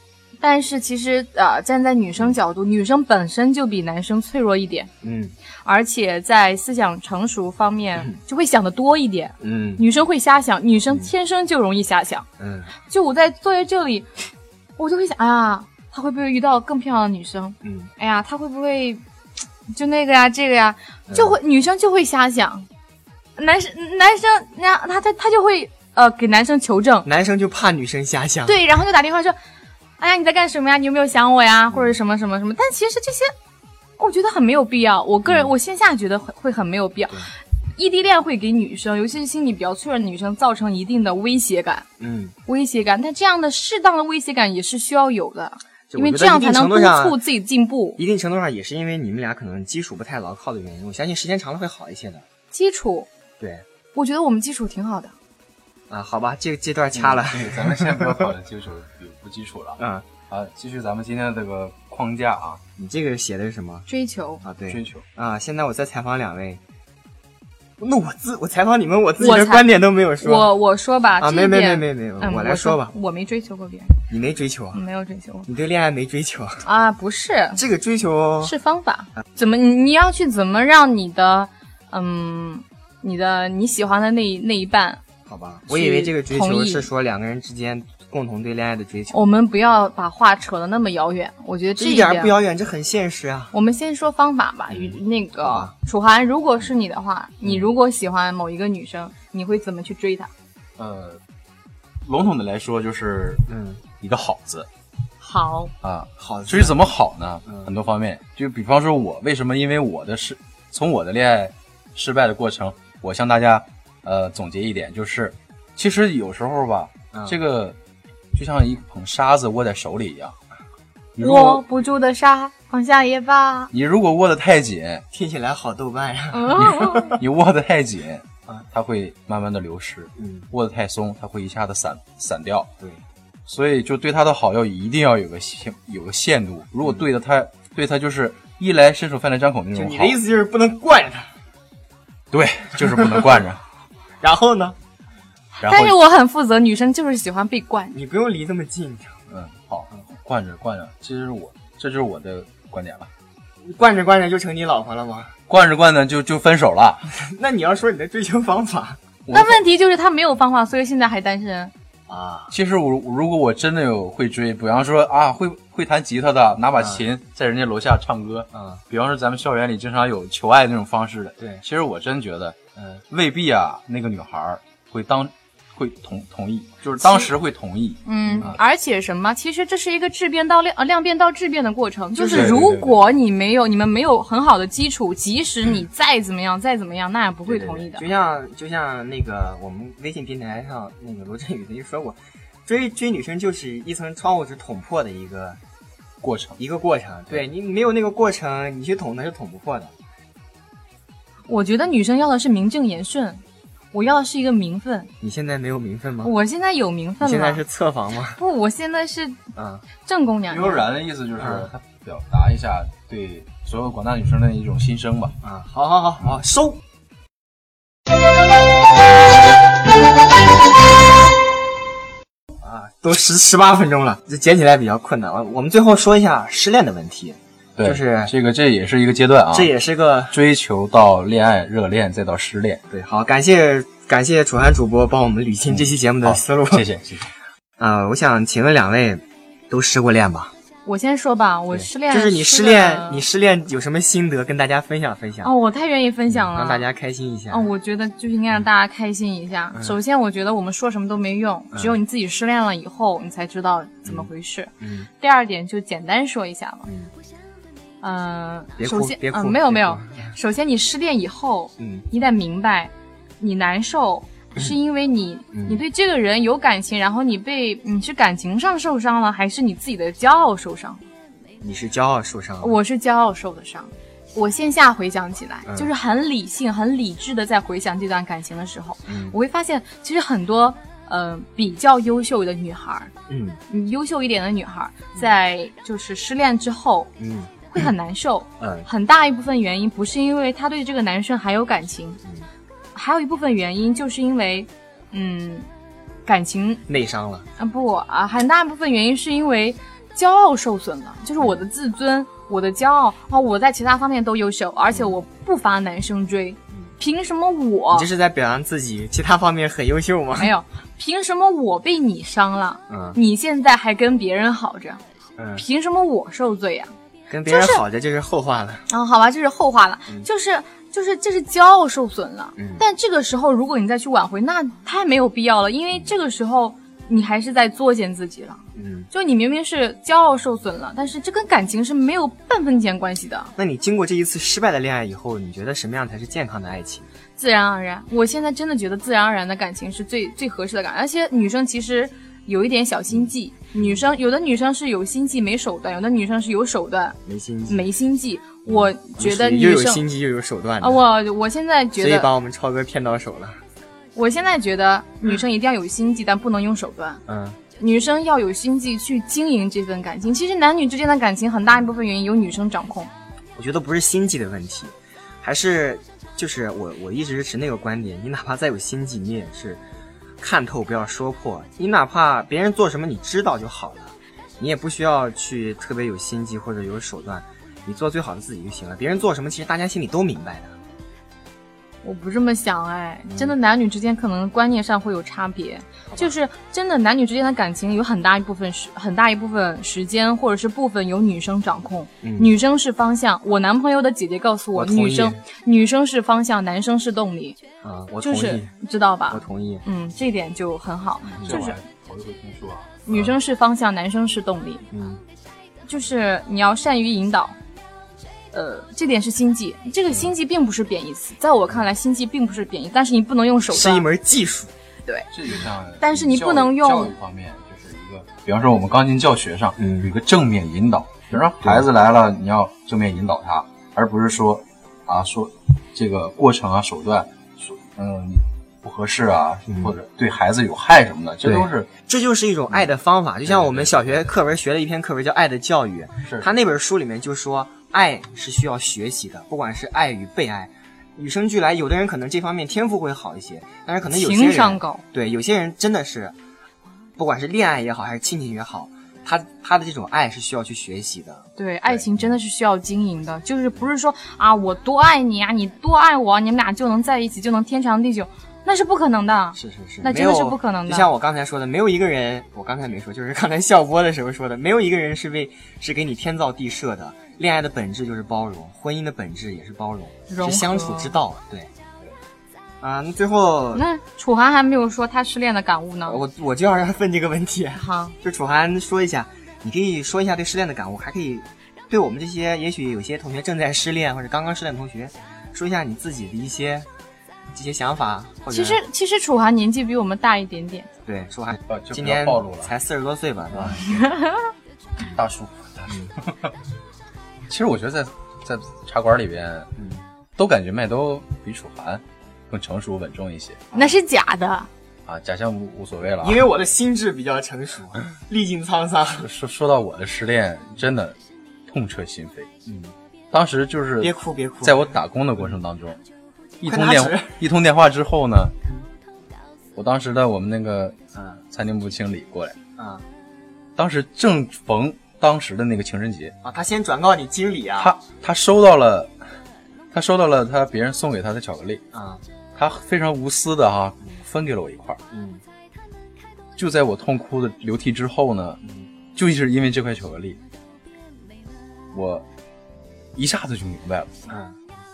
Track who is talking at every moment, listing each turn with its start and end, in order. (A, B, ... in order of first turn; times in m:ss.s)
0:00.4-0:04.9 A
0:05.0-0:05.3 B
0:05.6-0:12.3 A
0:09.4-0:09.8 B
0:12.4-0:12.7 B
0:12.9-0:19.0 A
0:17.6-0:17.9 B
0:19.7-0:22.7 A
0:21.1-0:21.4 B
0:23.4-0:27.1 A
0:27.0-0:28.6 B
0:28.5-0:29.4 A
0:30.0-0:33.3 A
0:31.7-0:32.0 B
0:34.0-0:41.9 A
0:35.2-0:35.5 B
0:42.0-0:42.4 B
0:42.5-0:48.0 A
0:45.9-0:47.2 B
0:48.0-0:52.2 B
0:52.5-0:53.1 A
0:53.4-0:53.6 B
0:53.9-0:55.1 A
0:55.9-0:58.3 B
0:56.9-1:02.6 C
0:59.8-1:00.1 B
1:02.8-1:03.9 B
1:03.9-1:04.4 A
1:04.4-1:06.6 B
1:04.7-1:05.1 C
1:07.8-1:10.5 B
1:09.2-1:09.7 A
1:10.2-1:14.0 A
1:11.2-1:12.9 B
1:14.1-1:14.8 B
1:14.7-1:15.5 A
1:15.5-1:16.6 B
1:16.6-1:17.6 A
1:17.6-1:18.5 B
1:18.4-1:25.0 A
1:25.3-1:29.3 B
1:25.7-1:26.9 A
1:29.1-1:32.3 A
1:31.8-1:33.5 B
1:33.5-1:40.3 A
1:34.7-1:35.7 B
1:40.8-1:41.2 C
1:42.0-1:43.5 C
1:43.5-1:43.8 B
1:44.0-1:44.7 C
1:45.2-1:45.7 A
1:45.8-1:57.8 C
1:46.2-1:46.8 B
1:47.5-1:47.7 B
1:57.1-1:57.4 B
1:58.3-2:00.4 C
2:01.2-2:01.6 C
2:01.2-2:03.7 A
2:03.7-2:05.0 C
2:05.1-2:07.2 B
2:06.3-2:07.2 A
2:06.6-2:12.7 C
2:10.2-2:10.5 B
2:13.5-2:20.2 C
2:19.8-2:21.3 B
2:22.3-2:23.6 C
2:24.2-2:24.8 B
2:25.6-2:28.0 A
2:25.6-2:26.0 C
2:27.9-2:29.2 B
2:29.3-2:33.1 C
2:33.6-2:35.4 B
2:35.5-2:37.1 C
2:37.2-2:39.0 B
2:39.2-2:39.6 C
2:39.3-2:41.7 A
2:42.1-2:42.5 B
2:42.5-2:52.6 C
2:46.8-2:47.0 B
2:48.5-2:48.8 B
2:51.4-2:51.6 B
2:52.8-2:53.0 B
2:53.1-2:58.6 C
2:57.0-2:57.3 A
2:58.0-3:08.1 A
2:58.3-2:58.5 B
3:02.1-3:02.7 B
3:02.3-3:03.0 C
3:07.5-3:15.6 B
3:16.2-3:16.6 C
3:16.6-3:19.9 B
3:21.5-3:23.4 A
3:23.9-3:25.1 A
3:25.2-3:26.3 B
3:26.2-3:27.6 A
3:27.2-3:28.4 B
3:28.4-3:29.4 A
3:29.6-3:29.8 B
3:30.0-3:30.8 A
3:30.5-3:35.4 C
3:31.4-3:31.7 B
3:35.4-3:36.8 B
3:42.6-3:48.3 B
3:47.8-3:49.7 C
3:49.5-3:50.4 B
3:50.3-3:52.8 C
3:52.9-3:56.9 B
3:55.7-3:57.3 C
3:57.8-4:00.5 B
4:00.9-4:03.2 A
4:01.7-4:05.5 B
4:05.4-4:06.9 A
4:06.4-4:07.7 B
4:07.5-4:16.9 A
4:14.8-4:15.1 B
4:16.9-4:17.1 B
4:18.0-4:31.0 A
4:18.8-4:20.3 B
4:21.8-4:22.1 B
4:25.5-4:25.8 B
4:31.6-4:32.8 B
4:32.6-4:43.1 A
4:39.1-4:39.4 B
4:43.3-4:43.6 B
4:43.7-4:47.1 A
4:47.2-4:47.8 B
4:47.7-4:52.2 A
4:48.6-4:48.9 B
4:53.0-4:55.7 A
4:56.2-4:56.8 A
4:56.9-4:57.5 B
4:57.6-5:08.1 A
5:07.9-5:10.5 B
5:10.4-5:15.0 A
5:12.9-5:13.2 B
5:15.4-5:15.6 B
5:15.5-5:16.9 A
5:17.3-5:18.9 B
5:17.5-5:17.8 A
5:18.9-5:33.5 A
5:22.6-5:22.8 B
5:28.8-5:29.1 B
5:33.6-5:37.1 B
5:37.4-5:47.2 A
5:43.1-5:44.0 B
5:47.2-5:47.9 B
5:47.7-5:50.0 A
5:48.7-5:51.0 B
5:50.8-5:52.3 A
5:52.0-5:53.6 B
5:54.2-5:57.2 A
5:57.3-5:57.6 B
5:57.8-6:03.1 A
6:03.6-6:09.8 B
6:10.4-6:20.8 B
6:22.0-6:37.6 A
6:32.2-6:32.5 B
6:34.8-6:35.4 B
6:37.8-6:38.7 B
6:38.2-6:41.8 A
6:39.3-6:39.8 B
6:41.2-6:43.1 C
6:43.0-6:44.9 A
6:44.9-6:45.2 B
6:45.9-6:47.6 A
6:48.5-6:54.0 A
6:53.7-6:54.7 B
6:55.3-7:11.9 C
6:56.0-6:57.1 A
6:59.8-7:00.1 B
7:09.7-7:10.0 B
7:11.4-7:26.4 B
7:13.4-7:14.4 C
7:16.2-7:16.5 C
7:24.1-7:25.0 A
7:27.2-7:32.2 B
7:31.6-7:41.1 A
7:39.6-7:51.7 B
7:50.3-7:51.2 A
7:52.8-7:53.8 B
7:53.7-7:56.2 A
7:56.1-8:06.9 B
7:57.8-7:58.2 A
8:07.5-8:08.8 B
8:08.5-8:10.9 A
8:11.0-8:14.0 B
8:11.7-8:12.7 C
8:13.5-8:13.8 C
8:13.9-8:14.5 A
8:15.0-8:16.5 C
8:17.5-8:19.7 C
8:19.8-8:20.0 B
8:20.4-8:23.6 C
8:23.7-8:24.7 A
8:25.0-8:26.4 C
8:26.2-8:29.3 B
8:29.2-8:32.5 C
8:32.7-8:32.9 B
8:33.3-8:36.0 C
8:34.0-8:35.5 B
8:36.6-8:38.5 C
8:36.6-8:37.4 B
8:39.8-8:41.0 C
8:41.2-8:41.4 B
8:41.5-8:42.6 C
8:42.8-8:43.0 B
8:43.8-8:46.4 C
8:46.4-8:47.9 B
8:47.8-8:49.2 C
8:49.9-8:51.8 C
8:51.9-8:52.2 B
8:52.6-8:55.0 C
8:55.1-8:55.4 B
8:56.6-8:58.6 C
8:58.6-8:58.9 B
8:59.2-9:00.4 C
9:01.9-9:02.2 C
9:03.2-9:04.1 C
9:04.3-9:04.5 B